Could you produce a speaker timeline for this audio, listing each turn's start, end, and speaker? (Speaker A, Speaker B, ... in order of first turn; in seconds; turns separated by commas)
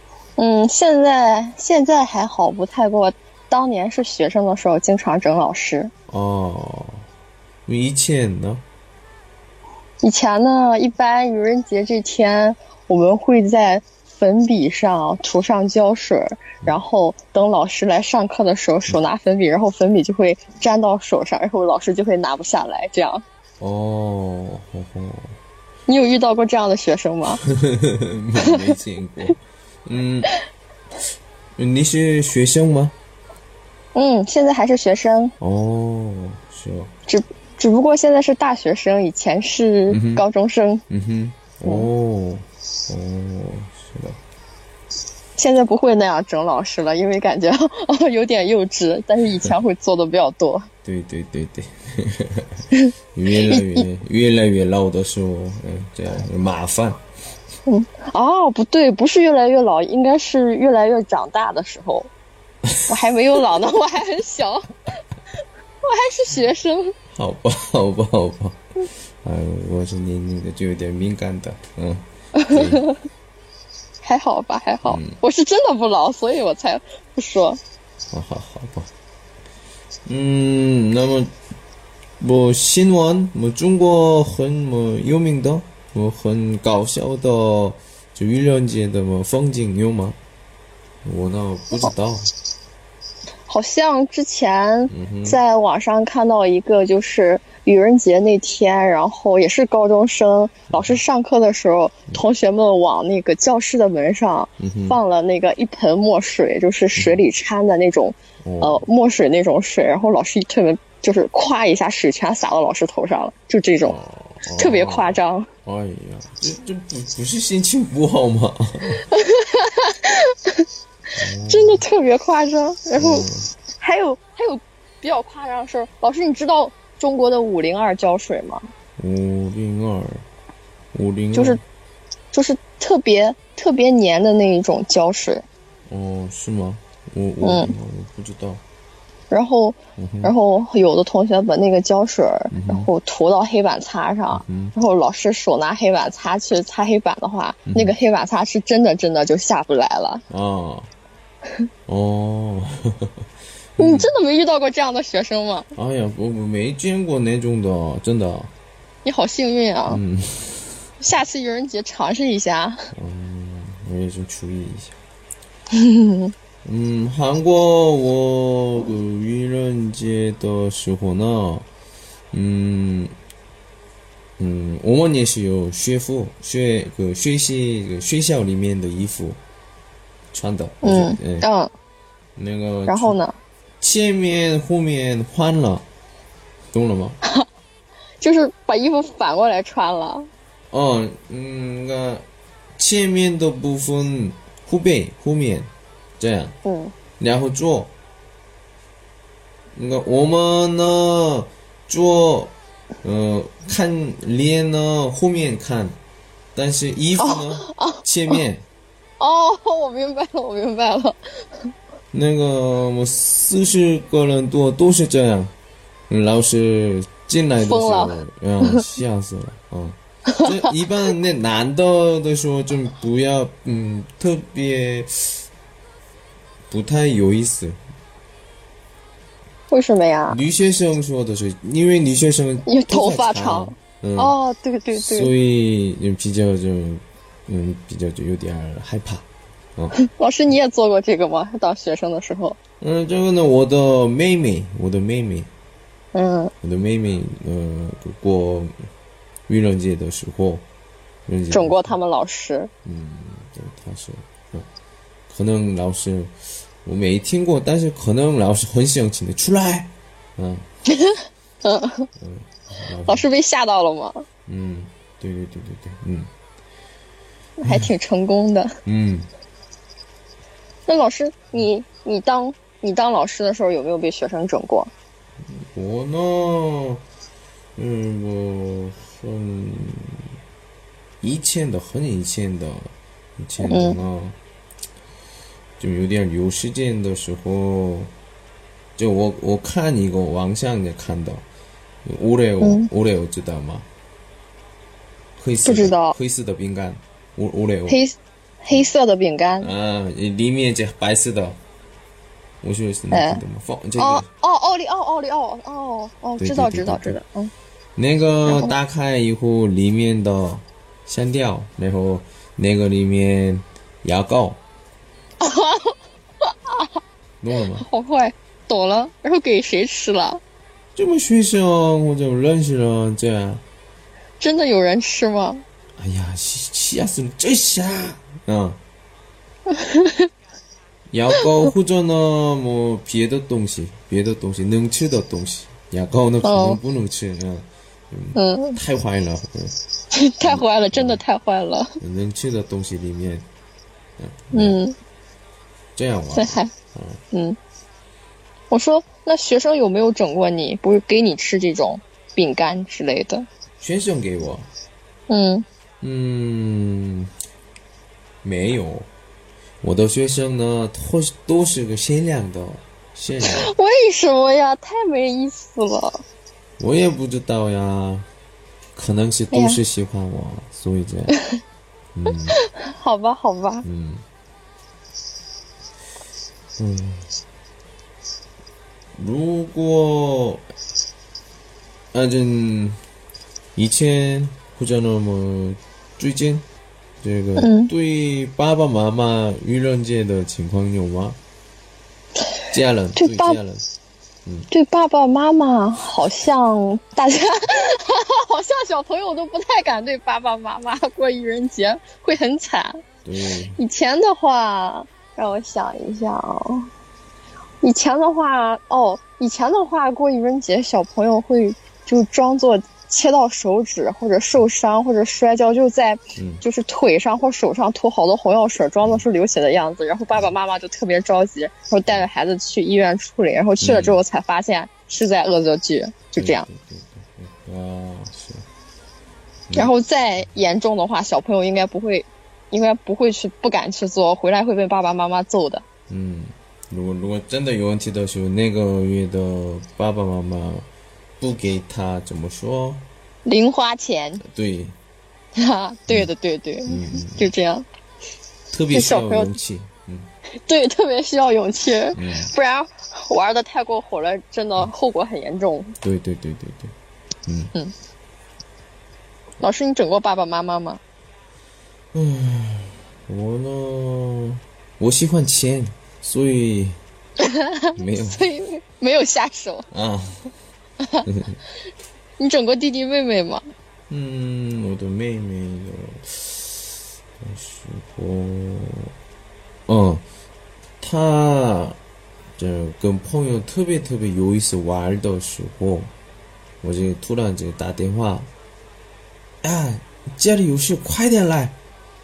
Speaker A: 0.4-5.9, Speaker B: 6.1-7.0, Speaker B: 7.7-8.6, Speaker A: 10.0-23.2, Speaker B: 23.6-25.4, Speaker A: 25.9-27.4, Speaker B: 27.4-30.3, Speaker B: 31.6-32.9, Speaker A: 33.9-35.3, Speaker B: 35.4-36.9, Speaker A: 37.1-40.8, Speaker B: 39.9-40.2, Speaker B: 40.9-44.2, Speaker A: 45.4-50.7, Speaker B: 50.8-57.0, Speaker A: 52.7-53.9, Speaker A: 57.7-62.1, Speaker B: 62.7-62.9, Speaker A: 62.9-64.9, Speaker A: 65.8-66.9, Speaker B: 67.1-72.8, Speaker A: 72.3-73.0, Speaker A: 74.0-77.6, Speaker B: 74.8-75.2, Speaker B: 78.1-78.9, Speaker B: 80.0-81.3, Speaker B: 82.2-90.2, Speaker B: 91.0-92.3, Speaker A: 93.5-114.0, Speaker B: 94.9-95.4, Speaker B: 100.7-101.0, Speaker B: 104.6-105.0, Speaker B: 107.0-107.2, Speaker B: 108.4-108.8, Speaker B: 113.8-119.0, Speaker A: 114.6-115.5, Speaker A: 118.9-120.6, Speaker B: 121.2-121.8, Speaker A: 121.5-123.2, Speaker B: 122.9-123.5, Speaker A: 123.8-128.7, Speaker B: 129.0-130.2, Speaker B: 130.9-131.6, Speaker A: 131.3-131.6, Speaker A: 132.3-135.4, Speaker B: 135.9-138.6, Speaker A: 137.4-137.7, Speaker A: 139.3-150.2, Speaker B: 140.0-140.3, Speaker B: 142.5-142.9, Speaker B: 144.3-144.7, Speaker B: 147.7-147.9, Speaker B: 150.3-150.9, Speaker B: 151.9-153.1, Speaker B: 153.8-154.1, Speaker A: 153.8-155.7, Speaker B: 155.8-158.5, Speaker A: 159.0-160.0, Speaker B: 159.9-160.9, Speaker A: 161.0-162.9, Speaker B: 162.9-165.0, Speaker A: 165.7-166.3, Speaker B: 166.6-171.7, Speaker B: 172.3-173.1, Speaker B: 174.4-179.4, Speaker B: 180.3-181.5, Speaker A: 180.8-181.7, Speaker B: 182.3-183.1, Speaker A: 182.9-183.3, Speaker B: 183.8-185.8, Speaker B: 186.7-187.2, Speaker A: 188.2-190.3, Speaker B: 190.7-192.2, Speaker B: 192.8-196.6, Speaker A: 196.6-196.9, Speaker B: 197.2-197.9, Speaker B: 199.7-206.0, Speaker B: 206.5-208.6, Speaker A: 207.2-208.4, Speaker A: 209.2-211.7, Speaker B: 212.1-215.5, Speaker B: 216.1-225.5, Speaker A: 217.6-218.8, Speaker B: 226.7-227.8, Speaker A: 229.7-230.4, Speaker B: 230.3-234.3, Speaker A: 232.7-235.3, Speaker B: 235.0-239.9, Speaker A: 240.0-242.6, Speaker B: 242.8-245.5, Speaker A: 246.1-246.5, Speaker B: 246.6-248.8, Speaker B: 249.5-250.6, Speaker B: 251.3-251.9, Speaker A: 251.5-252.7, Speaker B: 252.8-254.7, Speaker B: 255.3-260.7, Speaker A: 260.9-262.1, Speaker B: 262.2-263.3, Speaker A: 263.0-264.2, Speaker B: 264.4-266.3, Speaker A: 267.6-268.8, Speaker B: 267.6-267.9, Speaker B: 268.8-269.3, Speaker A: 270.9-274.9, Speaker B: 275.5-277.0, Speaker B: 277.8-280.3, Speaker B: 281.2-284.4, Speaker A: 283.6-284.0, Speaker B: 285.8-288.1, Speaker B: 289.0-291.4, Speaker B: 292.0-293.9, Speaker A: 292.6-292.9, Speaker B: 295.4-298.0, Speaker A: 295.6-296.1, Speaker A: 297.9-299.7, Speaker B: 299.6-301.6, Speaker B: 302.6-304.3, Speaker A: 303.1-303.4, Speaker A: 304.0-307.5, Speaker B: 306.4-307.2, Speaker B: 307.9-314.6, Speaker A: 308.4-308.7, Speaker A: 315.4-316.9, Speaker B: 317.4-317.9, Speaker A: 317.7-320.4, Speaker B: 320.9-323.6, Speaker A: 324.4-325.6, Speaker B: 326.0-328.8, Speaker A: 329.7-330.3, Speaker B: 331.1-339.8, Speaker A: 336.4-336.8, Speaker A: 338.3-338.8, Speaker A: 340.1-342.0, Speaker B: 340.4-341.2, Speaker B: 342.0-343.4, Speaker B: 344.2-344.8, Speaker A: 344.5-344.9, Speaker B: 345.9-347.2, Speaker A: 346.3-346.7, Speaker A: 347.3-347.6, Speaker A: 348.7-353.5, Speaker B: 353.8-354.7, Speaker A: 355.3-355.6, Speaker B: 356.0-357.3, Speaker B: 358.4-359.1, Speaker B: 359.8-363.7, Speaker A: 363.4-366.2, Speaker B: 366.8-368.3, Speaker B: 368.9-371.3, Speaker A: 369.5-369.8, Speaker B: 372.1-372.6, Speaker A: 372.6-373.9, Speaker B: 373.8-374.2, Speaker B: 376.8-377.3, Speaker B: 379.1-380.6, Speaker B: 382.1-383.0, Speaker B: 383.8-386.6, Speaker B: 387.2-391.4, Speaker A: 387.6-387.9, Speaker B: 392.7-393.9, Speaker A: 393.1-393.6, Speaker A: 394.7-403.0, Speaker B: 403.2-403.8, Speaker A: 403.8-406.9, Speaker A: 407.8-426.7, Speaker B: 416.4-416.6, Speaker B: 423.8-424.2, Speaker B: 426.4-428.6, Speaker B: 429.7-430.5, Speaker A: 429.7-435.8, Speaker B: 436.1-440.9, Speaker B: 441.4-443.0, Speaker A: 443.4-444.4, Speaker B: 444.4-444.9, Speaker A: 445.5-447.9, Speaker B: 446.9-447.5, Speaker B: 448.7-450.3, Speaker A: 448.9-449.6, Speaker A: 450.6-456.0, Speaker B: 452.1-452.5, Speaker B: 456.0-456.9, Speaker B: 457.5-457.7, Speaker A: 459.6-461.0, Speaker B: 462.1-467.0, Speaker A: 467.4-469.9, Speaker B: 467.9-468.5, Speaker B: 469.9-470.5, Speaker A: 471.0-471.3, Speaker B: 471.2-471.6, Speaker A: 472.4-473.6, Speaker B: 474.1-479.1, Speaker B: 479.9-480.2, Speaker B: 481.0-482.0, Speaker B: 482.6-486.1, Speaker B: 486.8-488.5, Speaker B: 489.6-491.8